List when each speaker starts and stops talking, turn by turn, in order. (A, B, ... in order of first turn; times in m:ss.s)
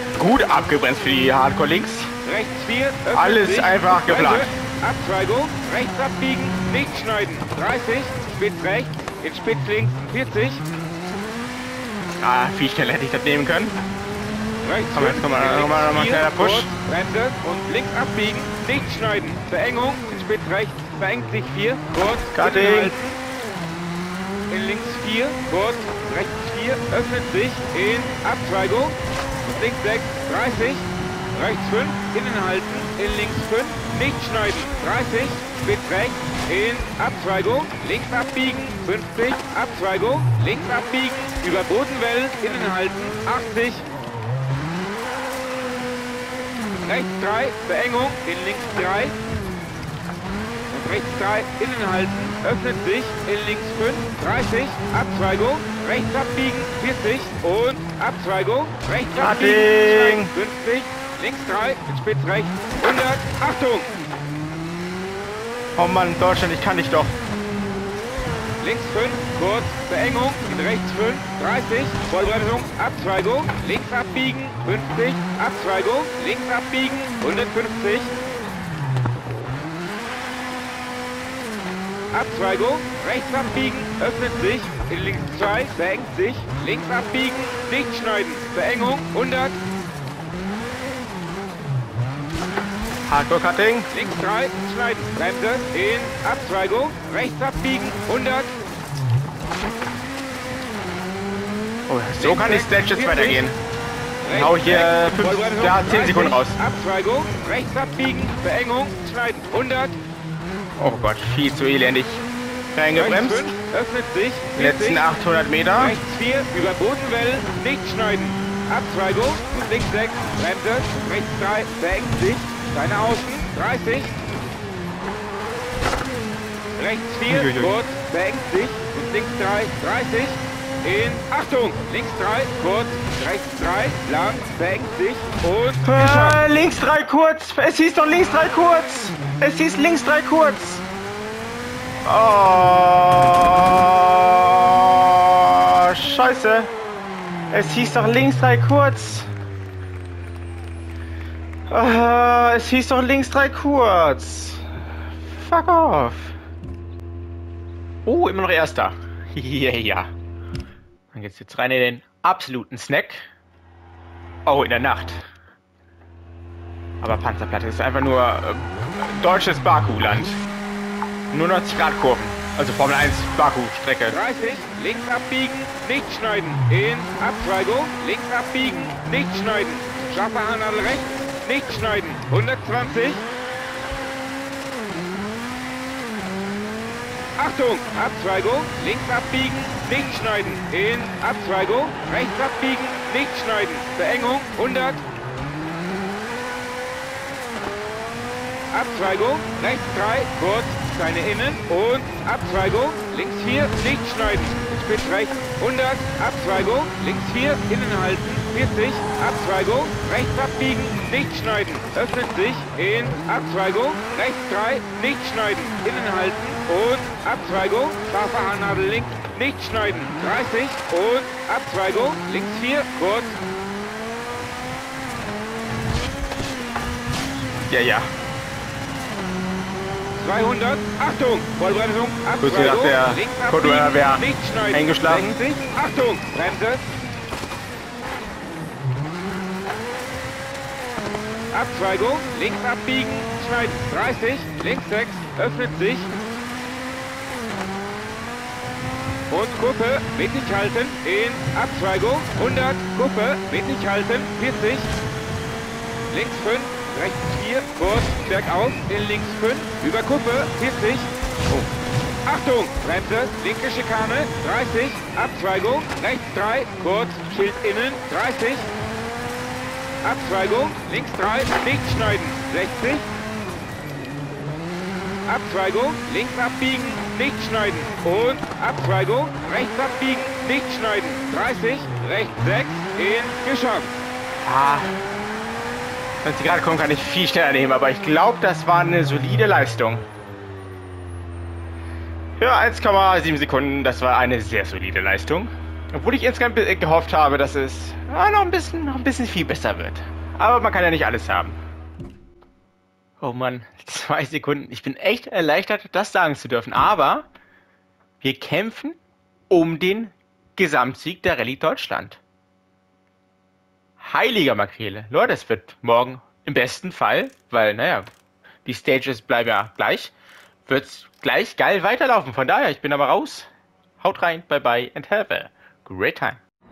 0:00.2-0:02.1 A
0:02.2-0:10.6 B
0:03.1-0:04.5 A
0:12.2-0:13.8 A
0:14.6-0:23.2 B
0:14.9-0:16.7 A
0:22.3-0:23.0 A
0:24.5-0:43.9 B
0:46.8-0:49.2 B
0:50.7-1:03.9 B
0:59.2-1:00.3 A
1:05.8-1:07.2 A
1:08.6-1:18.1 B
1:22.1-1:29.6 B
1:33.1-1:33.9 A
1:33.9-1:38.6 B
1:41.9-1:43.6 A
1:42.2-1:43.5 B
1:44.2-1:50.0 B
1:44.3-1:46.6 A
1:50.8-1:53.5 A
1:52.9-1:55.0 B
1:54.6-1:56.0 A
1:55.8-2:04.2 B
2:06.8-2:16.4 B
2:07.3-2:07.7 A
2:15.8-2:20.8 A
2:22.0-2:26.7 A
2:27.5-2:29.3 A
2:31.7-2:34.6 A
2:35.2-2:36.4 A
2:38.0-2:40.1 A
2:41.1-2:43.2 A
2:44.5-2:45.2 A
2:47.0-2:50.4 A
2:51.3-2:54.2 A
2:54.1-3:03.3 B
3:07.4-3:15.0 B
3:18.7-3:43.4 B
3:47.7-3:48.1 A
3:50.1-3:56.8 B
3:52.4-3:55.4 A
4:01.5-4:06.1 B
4:09.3-4:14.9 B
4:16.1-4:21.1 B
4:22.3-4:28.7 B
4:30.0-4:33.1 B
4:35.3-4:44.0 B
4:44.4-4:45.0 A
4:46.2-4:50.0 A
4:52.4-5:01.6 A
5:03.2-5:07.3 A
5:08.2-5:09.0 A
5:09.5-5:12.2 A
5:14.0-5:18.1 A
5:18.6-5:20.1 A
5:20.7-5:23.5 A
5:24.0-5:26.4 A